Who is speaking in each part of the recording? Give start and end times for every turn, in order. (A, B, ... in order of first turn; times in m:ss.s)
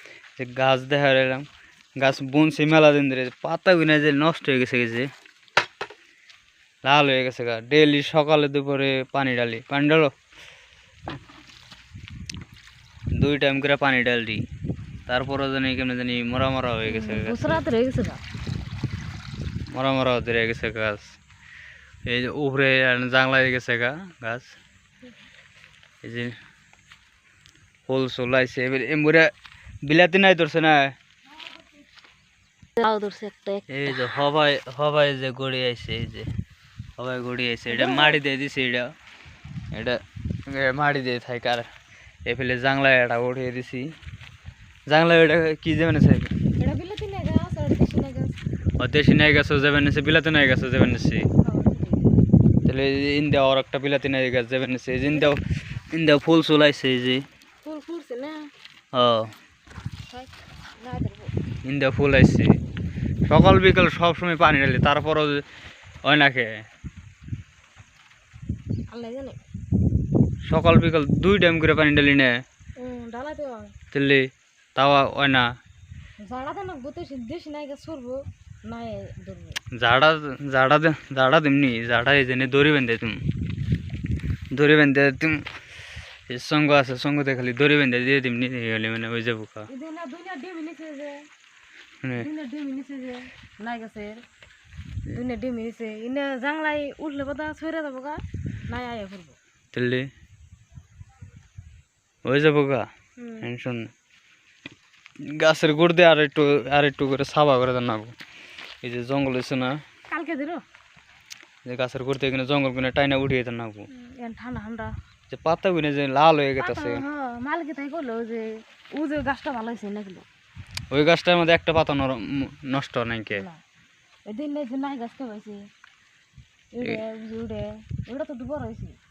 0:00.4-0:01.4 A
0:02.0-0:05.1 A
0:06.8-0:10.1 A
0:13.2-0:14.4 A
0:15.1-0:17.6 A
0:16.8-0:18.2 B
0:19.7-0:21.2 A
0:22.0-0:24.6 A
0:26.0-0:26.4 A
0:27.9-0:29.3 A
0:29.8-0:30.9 A
0:32.8-0:33.6 B
0:33.7-0:36.3 A
0:37.0-0:38.9 A
0:37.7-0:38.2 B
0:39.7-0:41.7 A
0:42.2-0:43.9 A
0:44.9-0:46.3 A
0:46.6-0:48.4 B
0:48.8-0:51.3 A
0:51.4-0:52.0 B
0:52.6-0:57.2 A
0:57.6-0:58.5 B
0:58.9-0:59.3 A
1:00.1-1:01.3 B
1:01.6-1:02.6 A
1:03.3-1:05.4 A
1:06.0-1:06.6 A
1:08.9-1:09.4 B
1:10.4-1:12.4 A
1:12.8-1:13.7 B
1:13.9-1:15.5 A
1:16.2-1:19.6 B
1:19.7-1:23.2 A
1:24.5-1:25.5 A
1:26.3-1:29.7 A
1:29.7-1:31.3 B
1:32.2-1:34.2 B
1:35.1-1:39.4 B
1:39.7-1:40.1 A
1:42.2-1:42.8 A
1:43.2-1:43.5 B
1:43.4-1:43.9 A
1:45.3-1:48.1 A
1:48.8-1:49.8 A
1:50.1-1:50.6 B
1:51.6-1:53.9 A
1:53.9-1:54.9 B
1:55.3-1:57.0 A
1:56.6-2:00.2 B
2:00.9-2:03.4 A
2:03.3-2:03.6 B
2:04.2-2:05.7 B
2:06.7-2:09.0 B